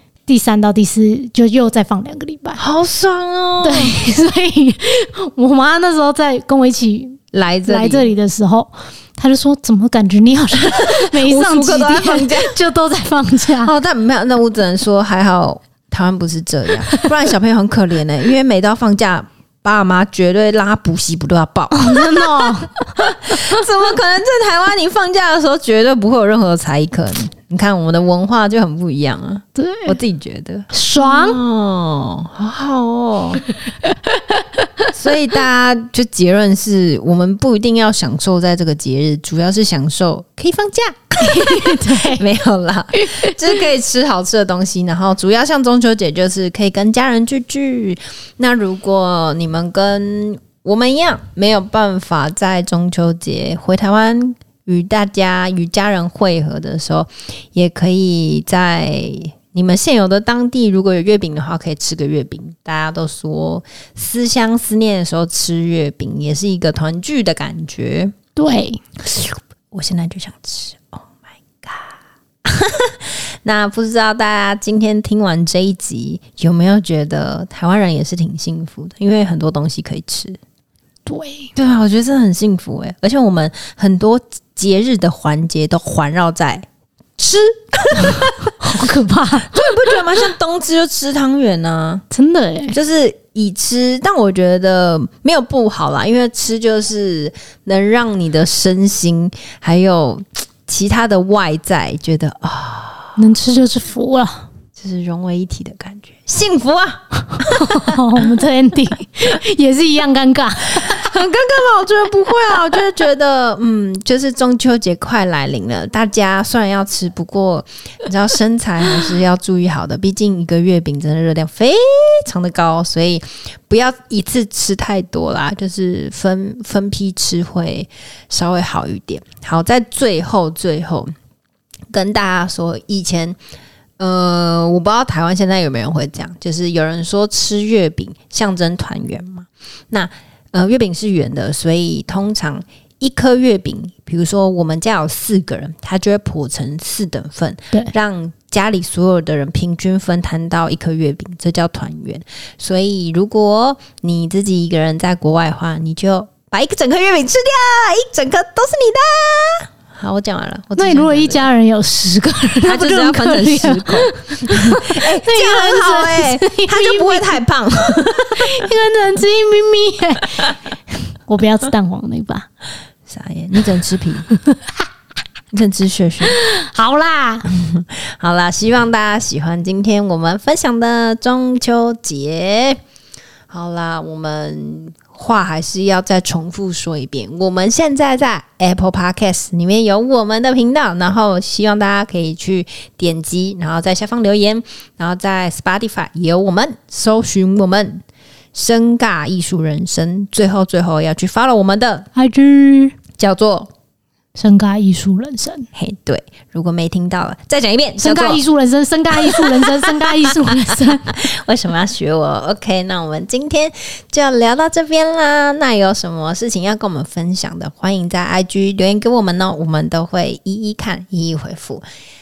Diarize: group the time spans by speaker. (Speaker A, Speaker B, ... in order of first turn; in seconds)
Speaker A: 0.3-2.6, 3.6-13.7, 21.7-23.6, 29.5-30.0, 30.7-31.4, 33.6-34.9, 41.2-42.2, 42.9-43.5, 68.3-68.8, 81.0-81.5, 88.0-90.2, 92.1-92.8, 103.2-104.5, 107.3-111.1, 160.8-167.4, 168.3-170.6, 171.1-172.5, 174.4-174.8, 176.2-177.5, 202.1-203.0, 204.3-205.7, 208.0-211.3
Speaker B: 2.6-4.0, 7.3-8.1, 10.6-12.5, 13.6-33.4, 34.9-68.1, 69.0-80.4, 81.5-92.0, 92.7-103.2, 104.7-108.3, 110.7-131.1, 131.9-133.4, 134.0-161.5, 162.6-168.7, 173.1-174.3, 175.5-176.3, 177.5-182.8, 183.5-202.1, 203.2-203.7, 205.7-208.4, 209.2-221.8